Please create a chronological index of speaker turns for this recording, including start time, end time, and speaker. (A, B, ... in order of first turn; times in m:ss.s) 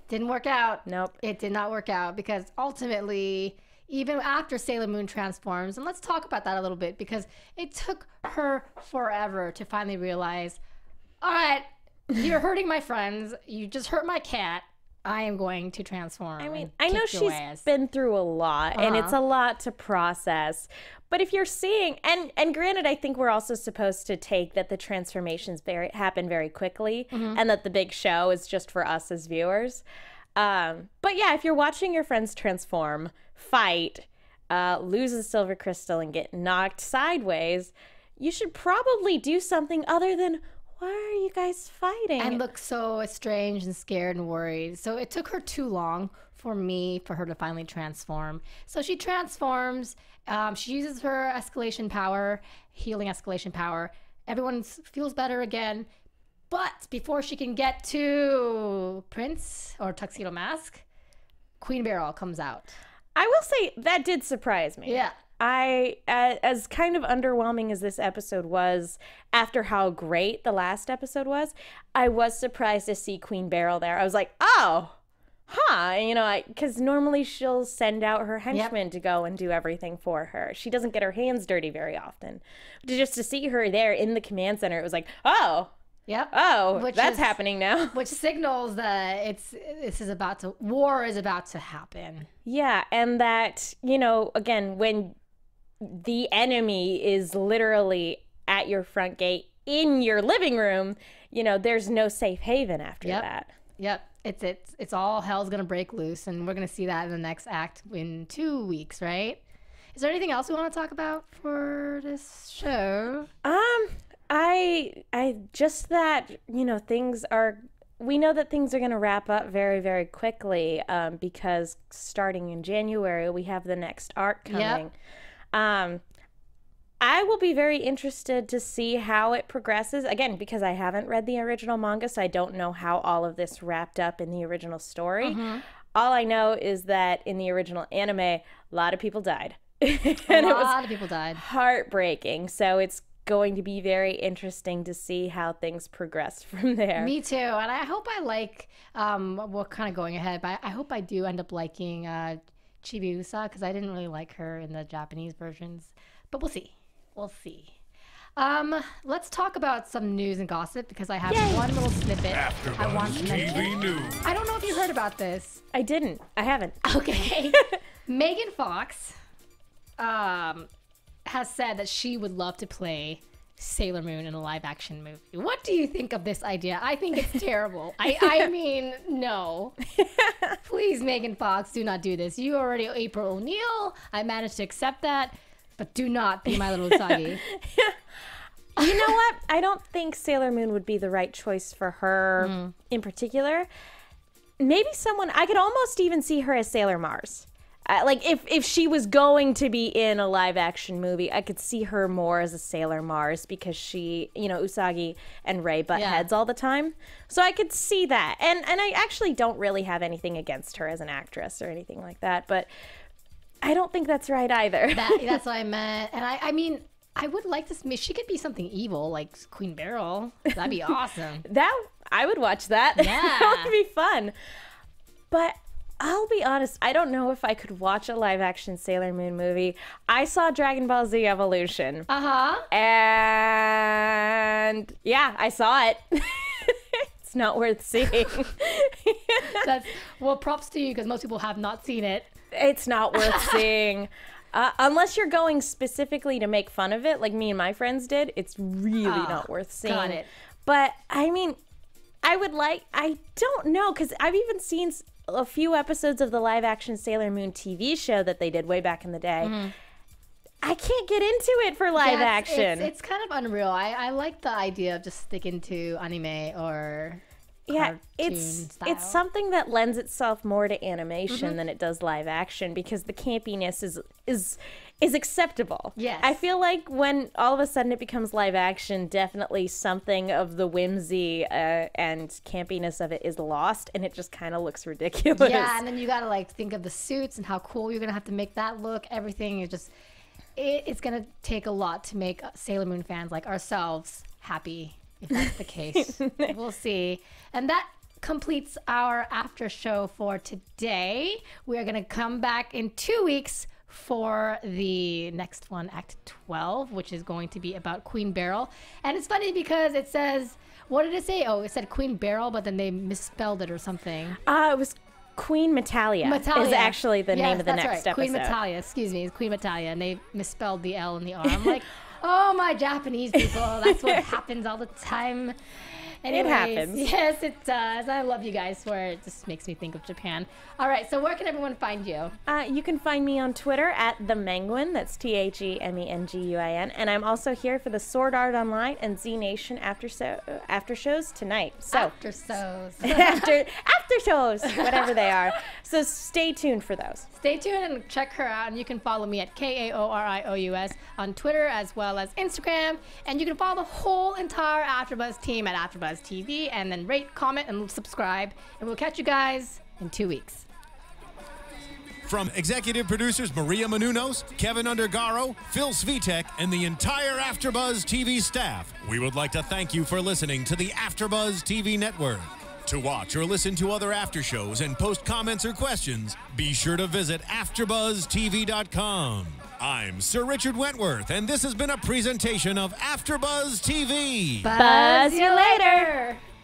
0:00.1-0:10.6 A
0:00.8-0:01.2 B
0:11.2-0:17.6 A
0:16.4-0:29.8 B
0:18.7-0:19.2 A
0:27.1-0:27.4 A
0:30.4-0:42.4 B
0:42.2-0:55.9 A
0:56.5-1:00.8 A
1:01.6-1:02.8 A
1:03.1-1:15.0 B
1:04.8-1:05.1 A
1:15.5-1:25.7 B
1:26.1-1:27.3 A
1:26.3-1:28.0 B
1:27.9-1:32.3 A
1:32.4-1:35.1 B
1:35.8-1:43.5 B
1:43.8-1:49.4 A
1:49.9-1:53.3 A
1:53.4-2:04.9 B
2:04.5-2:04.8 A
2:05.5-2:06.0 B
2:07.0-2:20.8 B
2:15.2-2:15.6 A
2:20.3-2:21.4 A
2:21.3-2:27.1 B
2:27.0-2:37.8 A
2:38.4-2:45.6 A
2:41.3-2:41.7 B
2:42.4-2:44.2 C
2:45.7-2:46.9 B
2:46.8-2:49.1 A
2:47.5-2:47.8 B
2:50.0-2:50.7 A
2:51.2-2:59.8 A
3:00.0-3:00.6 B
3:00.6-3:07.4 A
3:06.5-3:08.0 B
3:08.8-3:13.7 B
3:08.8-3:09.2 A
3:12.4-3:12.7 A
3:14.6-3:32.7 B
3:25.9-3:26.3 A
3:33.6-3:35.4 B
3:34.9-3:41.4 A
3:41.4-3:44.3 B
3:43.0-3:43.7 A
3:45.3-3:52.1 B
3:52.1-3:52.7 A
3:52.7-3:59.7 B
3:59.4-4:02.3 A
4:02.5-4:11.6 B
4:03.2-4:03.6 A
4:09.0-4:10.3 A
4:12.2-4:19.6 B
4:19.4-4:19.7 A
4:20.6-4:22.9 B
4:22.0-4:29.2 A
4:27.7-4:45.8 B
4:31.3-4:31.6 A
4:36.0-4:36.4 A
4:45.4-4:49.9 A
4:50.6-5:14.4 A
5:14.4-5:18.6 B
5:16.2-5:32.4 A
5:23.4-5:24.3 B
5:26.3-5:27.1 B
5:32.4-5:42.1 B
5:41.9-5:43.5 A
5:43.0-5:47.3 B
5:44.7-5:45.1 A
5:47.3-6:00.6 A
6:02.2-6:24.7 C
6:24.6-6:26.4 A
6:24.7-6:26.1 B